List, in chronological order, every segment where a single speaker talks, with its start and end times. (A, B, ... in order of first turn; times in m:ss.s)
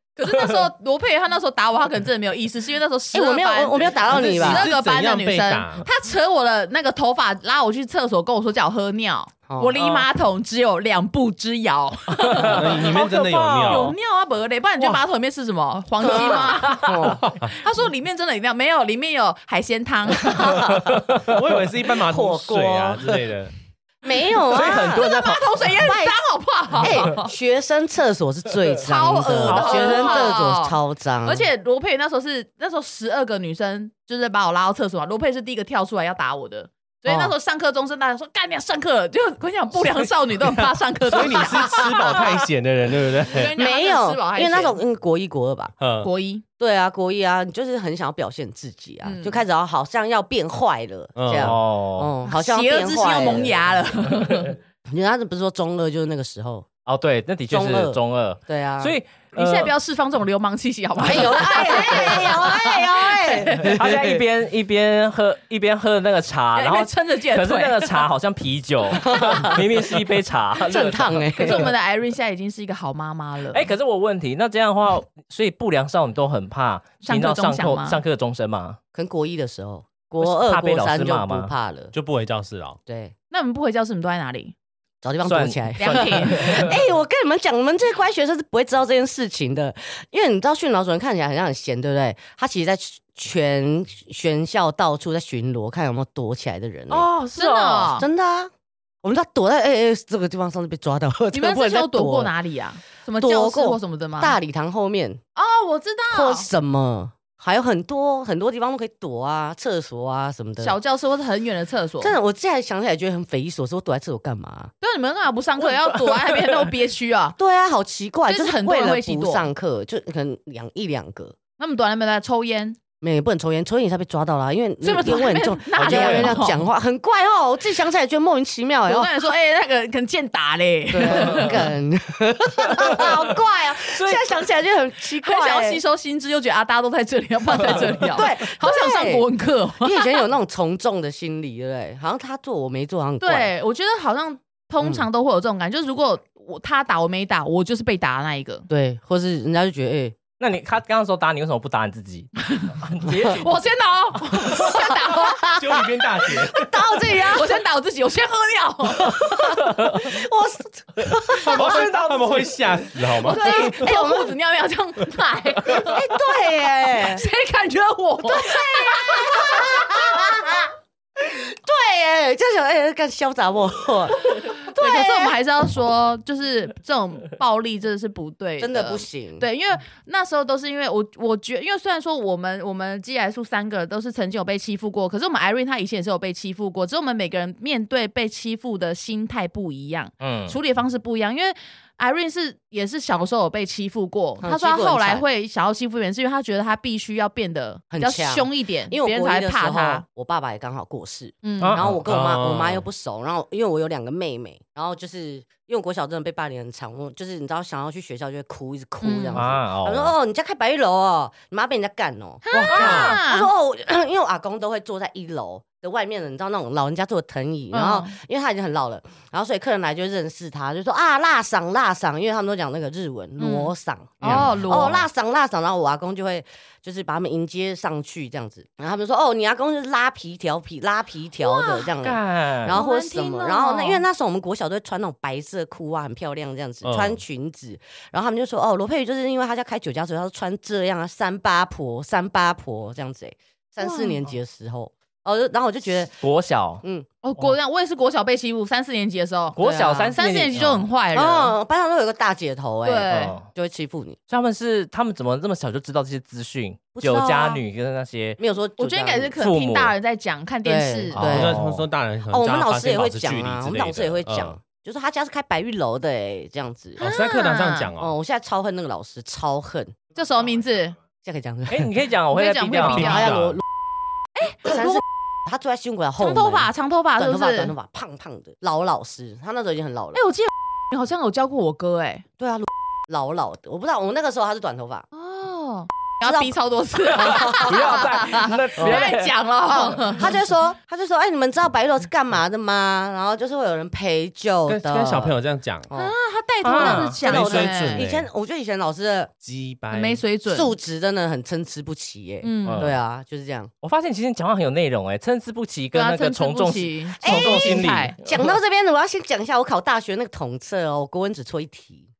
0:00.2-0:13.0 A
0:00.3-0:00.6 B
0:03.1-0:04.6 C
0:04.0-0:05.8 D
0:09.5-0:09.8 C
0:12.3-0:13.9 B
0:12.4-0:14.0 D
0:13.6-0:20.7 A
0:16.0-0:17.3 C
0:16.0-0:16.9 B
0:17.2-0:17.5 D
0:20.3-0:20.8 C
0:20.9-0:21.2 B
0:21.2-0:23.5 D
0:22.0-0:23.2 C
0:24.0-0:25.1 C
0:24.4-0:25.6 B
0:24.5-0:27.3 A
0:25.8-0:26.2 C
0:26.8-0:31.5 C
0:28.8-0:42.3 A
0:29.4-0:30.4 B
0:37.1-0:37.3 C
0:40.4-0:43.5 D
0:43.3-0:44.8 A
0:43.5-0:45.7 C
0:45.8-0:46.1 D
0:46.0-0:46.4 A
0:46.6-0:53.6 C
0:49.0-0:49.4 A
0:51.1-0:51.6 D
0:51.4-0:52.1 B
0:52.3-0:54.6 A
0:54.8-0:56.7 C
0:56.8-0:59.7 B
0:57.5-0:58.9 C
0:59.3-1:03.8 A
1:01.0-1:04.2 C
1:01.9-1:02.2 B
1:03.6-1:11.6 B
1:06.6-1:08.0 A
1:09.0-1:09.6 C
1:10.6-1:11.7 C
1:11.4-1:13.6 A
1:13.5-1:18.8 B
1:17.0-1:18.0 A
1:18.9-1:21.9 C
1:20.2-1:21.5 B
1:21.9-1:22.8 D
1:22.8-1:23.1 C
1:23.3-1:24.5 A
1:25.0-1:37.1 C
1:25.2-1:26.8 B
1:25.8-1:26.7 A
1:36.9-1:37.8 B
1:37.3-1:38.1 A
1:37.8-1:38.5 C
1:39.0-1:42.3 C
1:41.3-1:44.4 A
1:43.2-1:45.2 C
1:45.4-1:46.5 A
1:46.1-1:50.8 C
1:50.6-1:52.1 A
1:52.0-1:54.7 C
1:54.8-1:57.4 A
1:55.6-1:56.5 B
1:57.4-2:01.4 C
1:58.3-1:59.4 A
2:01.6-2:02.8 A
2:03.0-2:09.1 C
2:04.8-2:06.6 A
2:05.8-2:06.4 B
2:08.9-2:11.7 A
2:10.9-2:15.8 C
2:12.8-2:13.2 B
2:13.9-2:14.2 B
2:15.2-2:20.0 A
2:17.7-2:19.3 C
2:19.8-2:23.5 C
2:23.2-2:28.6 A
2:28.7-2:30.2 C
2:30.4-2:33.5 B
2:33.3-2:35.6 A
2:35.5-2:36.7 D
2:36.4-2:37.6 C
2:37.2-2:39.2 A
2:39.0-2:41.9 C
2:41.4-2:44.0 D
2:41.5-2:42.6 B
2:43.1-2:44.3 C
2:43.2-2:46.1 A
2:45.7-2:47.2 C
2:46.8-2:50.0 A
2:48.2-2:55.3 C
2:54.7-3:20.0 A
2:58.6-2:59.4 C
3:10.2-3:10.6 B
3:14.4-3:15.2 C
3:17.9-4:06.2 C
3:21.4-3:21.8 A
3:21.6-3:22.0 B
3:21.9-3:22.8 D
3:29.0-3:29.4 A
3:29.3-3:30.1 B
3:32.4-3:33.5 A
3:32.5-3:33.2 D
3:32.8-3:33.0 B
3:37.7-3:38.2 A
3:43.4-3:45.0 A
3:51.4-3:51.9 A
3:52.0-3:52.8 B
3:52.7-3:54.0 A
3:56.8-3:57.2 D
4:03.8-4:04.2 A
4:06.2-4:06.8 B
4:07.2-4:11.6 A
4:09.5-4:10.9 B
4:09.6-4:10.1 C
4:11.1-4:14.2 C
4:12.8-4:13.4 A
4:13.1-4:13.5 B
4:14.3-4:18.4 B
4:17.0-4:17.6 C
4:18.4-4:19.4 C
4:18.8-4:21.2 A
4:19.4-4:19.9 B
4:20.6-4:21.6 C
4:21.1-4:21.8 B
4:21.2-4:24.6 D
4:22.3-4:27.0 C
4:27.0-4:28.1 D
4:27.0-4:27.9 A
4:28.0-4:29.9 C
4:30.1-4:31.0 A
4:31.2-4:31.9 C
4:31.7-4:33.3 B
4:32.3-4:33.3 A
4:32.9-4:33.6 D
4:33.0-4:33.6 C
4:34.3-4:35.0 A
4:34.6-4:40.2 C
4:36.2-4:37.7 A
4:40.1-4:42.2 A
4:42.4-4:45.0 C
4:45.1-4:50.3 A
4:46.2-4:46.5 C
4:47.1-4:49.3 B
4:47.2-4:48.0 C
4:49.7-4:55.4 C
4:54.7-4:55.9 D
4:55.9-4:56.1 C
4:55.9-4:58.1 A
4:56.6-4:57.2 B
4:56.8-4:59.3 C
4:56.8-4:58.3 D
4:59.4-5:00.2 D
4:59.9-5:00.7 A
5:00.5-5:03.7 C
5:02.4-5:02.9 A
5:02.6-5:03.0 B
5:03.8-5:08.5 B
5:05.9-5:08.2 A
5:07.2-5:12.1 C